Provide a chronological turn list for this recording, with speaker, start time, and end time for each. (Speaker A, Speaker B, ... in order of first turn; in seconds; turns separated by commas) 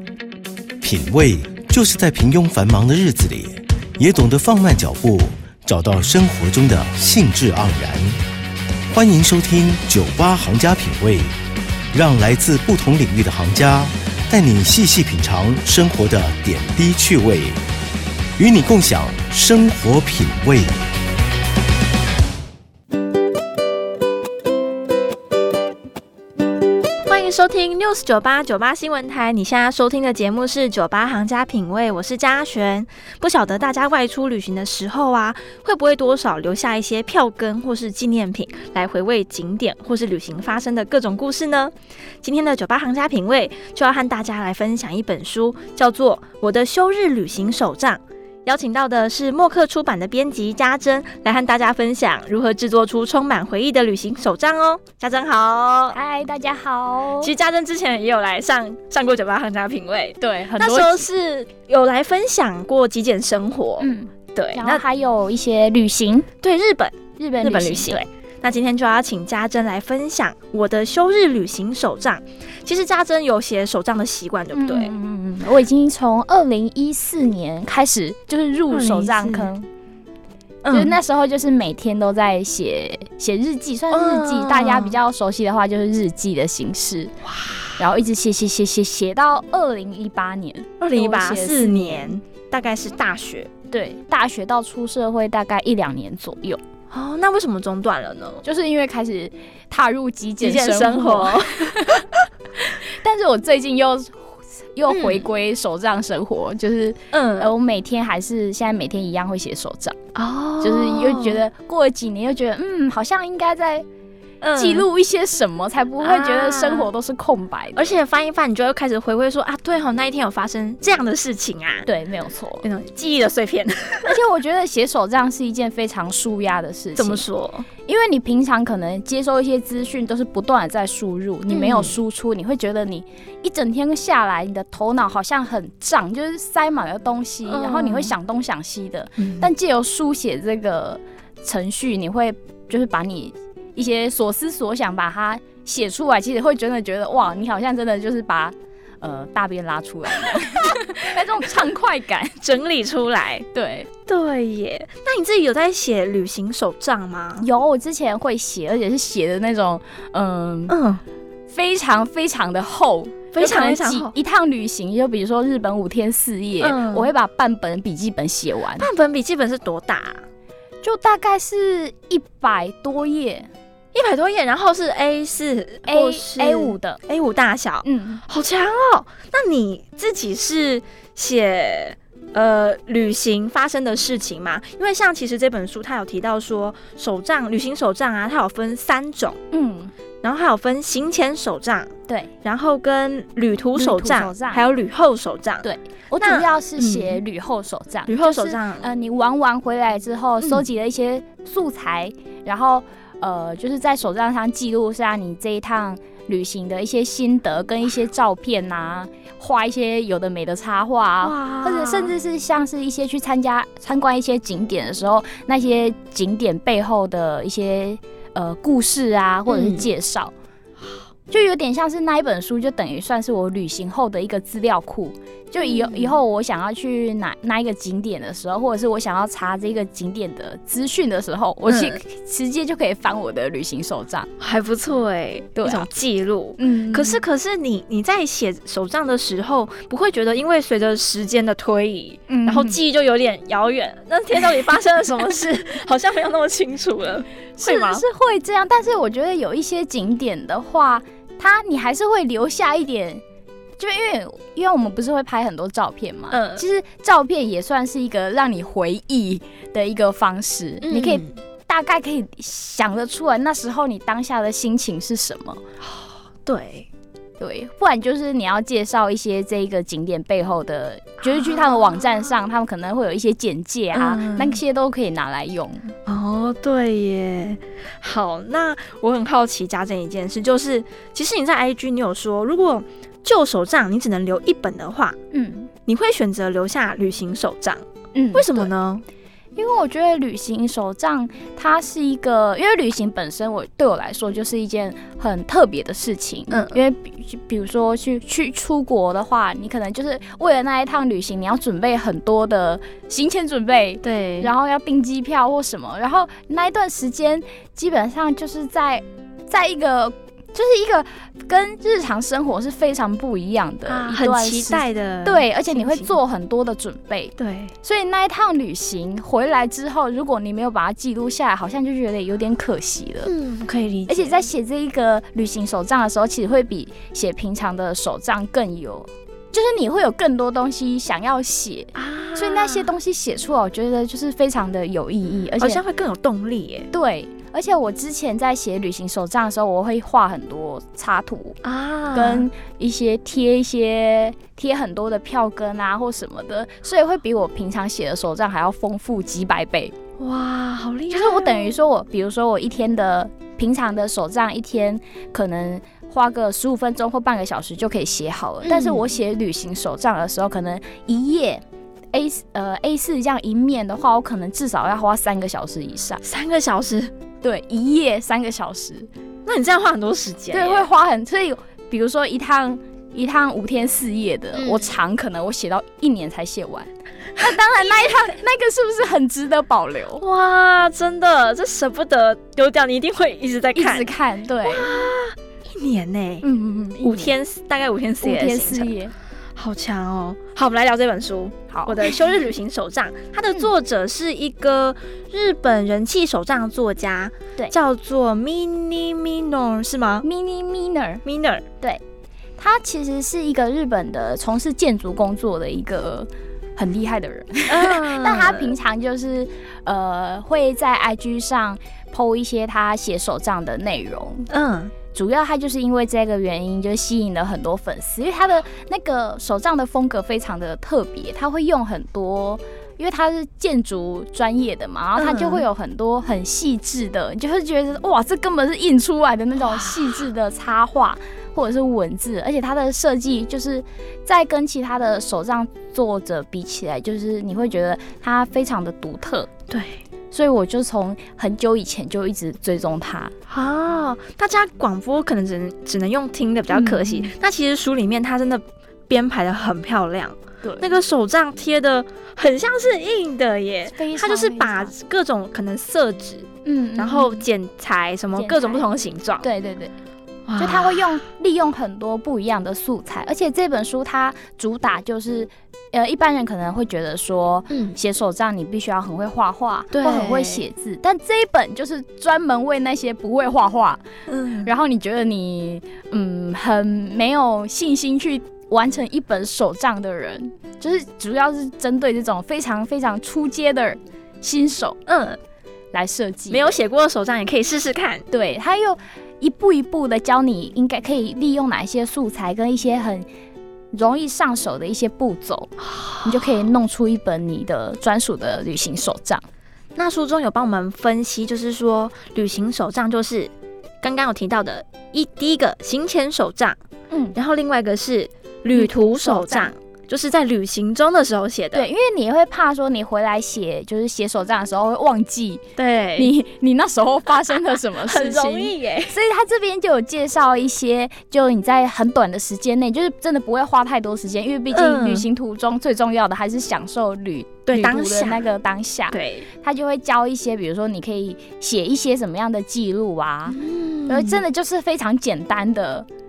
Speaker A: 0.8-8.2, Speaker A: 8.9-11.3, Speaker A: 11.9-17.6, Speaker A: 18.4-20.7, Speaker B: 27.1-56.0, Speaker C: 55.9-57.3, Speaker B: 57.2-64.8, Speaker C: 60.2-61.1, Speaker C: 63.8-66.3, Speaker B: 66.4-74.9, Speaker C: 67.2-68.0, Speaker C: 74.5-79.7, Speaker B: 78.7-79.5, Speaker B: 80.6-81.0, Speaker C: 80.7-87.1, Speaker B: 83.9-85.0, Speaker B: 87.3-87.8, Speaker C: 87.8-92.2, Speaker B: 90.8-93.5, Speaker C: 93.7-96.6, Speaker B: 96.9-98.4, Speaker C: 98.4-102.0, Speaker B: 100.4-102.0, Speaker C: 102.9-110.0, Speaker B: 104.9-105.2, Speaker B: 107.1-107.5, Speaker B: 110.2-111.4, Speaker C: 110.6-113.9, Speaker B: 114.4-114.9, Speaker C: 114.5-118.0, Speaker B: 116.0-116.9, Speaker B: 117.8-121.9, Speaker C: 121.9-122.7, Speaker B: 122.6-124.2, Speaker C: 124.0-127.3, Speaker B: 127.0-127.7, Speaker C: 127.9-152.4, Speaker B: 131.5-132.0, Speaker B: 137.5-138.1, Speaker B: 139.2-139.5, Speaker B: 152.4-153.5, Speaker C: 153.5-153.9, Speaker B: 154.1-157.5, Speaker C: 157.4-160.8, Speaker B: 160.7-161.0, Speaker C: 161.5-168.9, Speaker B: 163.3-164.1, Speaker B: 166.6-167.1, Speaker B: 168.8-170.2, Speaker C: 170.8-173.5, Speaker B: 173.9-189.4, Speaker C: 175.9-177.0, Speaker C: 177.8-178.2, Speaker C: 189.5-189.9, Speaker B: 190.2-191.9, Speaker B: 192.4-195.7, Speaker C: 193.8-194.6, Speaker C: 195.6-220.3, Speaker B: 196.2-197.2, Speaker B: 198.1-198.9, Speaker B: 211.2-212.1, Speaker B: 219.5-219.8, Speaker C: 221.3-234.3, Speaker B: 225.6-226.1, Speaker B: 231.7-232.0, Speaker B: 234.4-248.0, Speaker C: 235.6-235.9, Speaker C: 236.6-237.2, Speaker C: 242.3-242.8, Speaker C: 247.6-253.2, Speaker C: 253.8-265.6, Speaker B: 256.3-256.6, Speaker B: 260.8-261.4, Speaker B: 265.8-266.9, Speaker C: 267.4-275.9, Speaker B: 271.2-272.4, Speaker B: 273.9-274.6, Speaker B: 276.1-285.2, Speaker C: 285.3-285.7, Speaker B: 285.9-287.8, Speaker C: 288.1-288.7, Speaker B: 288.3-289.0, Speaker C: 289.6-323.3, Speaker B: 296.5-296.8, Speaker B: 304.0-304.5, Speaker B: 313.9-316.1, Speaker B: 317.4-317.7, Speaker B: 323.2-324.4, Speaker C: 324.1-335.8, Speaker B: 331.9-332.9, Speaker B: 335.6-336.9, Speaker C: 336.9-341.6, Speaker B: 341.6-342.5, Speaker C: 342.1-349.9, Speaker B: 350.2-351.7, Speaker C: 351.1-366.2, Speaker B: 358.6-359.1, Speaker B: 366.2-367.1, Speaker C: 367.4-369.1, Speaker B: 369.5-370.9, Speaker C: 370.5-380.2, Speaker B: 374.6-374.9, Speaker B: 377.4-378.3, Speaker B: 380.2-384.1, Speaker C: 383.7-385.1, Speaker B: 384.6-386.5, Speaker C: 386.4-387.4, Speaker B: 387.0-388.9, Speaker C: 388.2-389.1, Speaker B: 389.6-400.2, Speaker C: 391.7-392.2, Speaker C: 400.2-401.2, Speaker B: 401.2-401.6, Speaker C: 402.6-414.5, Speaker B: 407.7-408.7, Speaker B: 414.5-414.9, Speaker C: 415.1-439.5, Speaker B: 425.2-425.7, Speaker B: 439.7-440.0, Speaker C: 440.3-443.3, Speaker B: 443.5-459.4, Speaker C: 446.7-447.3, Speaker C: 450.6-450.9, Speaker C: 453.9-454.9, Speaker C: 456.6-457.4, Speaker C: 458.4-458.9, Speaker C: 459.4-459.9, Speaker B: 460.5-461.2, Speaker C: 460.6-474.0, Speaker B: 467.7-468.0, Speaker B: 469.9-470.6, Speaker B: 474.3-474.7, Speaker C: 474.6-485.0, Speaker B: 485.1-485.4, Speaker C: 485.9-486.8, Speaker B: 486.5-488.2, Speaker C: 488.3-493.3, Speaker C: 493.9-495.7, Speaker B: 496.0-496.2, Speaker C: 496.2-499.4, Speaker B: 500.0-503.5, Speaker B: 504.0-506.8, Speaker C: 507.1-507.4, Speaker B: 507.3-511.9, Speaker C: 508.8-509.7, Speaker C: 511.7-515.6, Speaker B: 515.8-516.3, Speaker C: 516.2-536.1, Speaker B: 518.0-519.1, Speaker B: 524.7-525.3, Speaker B: 527.7-528.5, Speaker B: 529.1-529.5, Speaker B: 533.5-534.4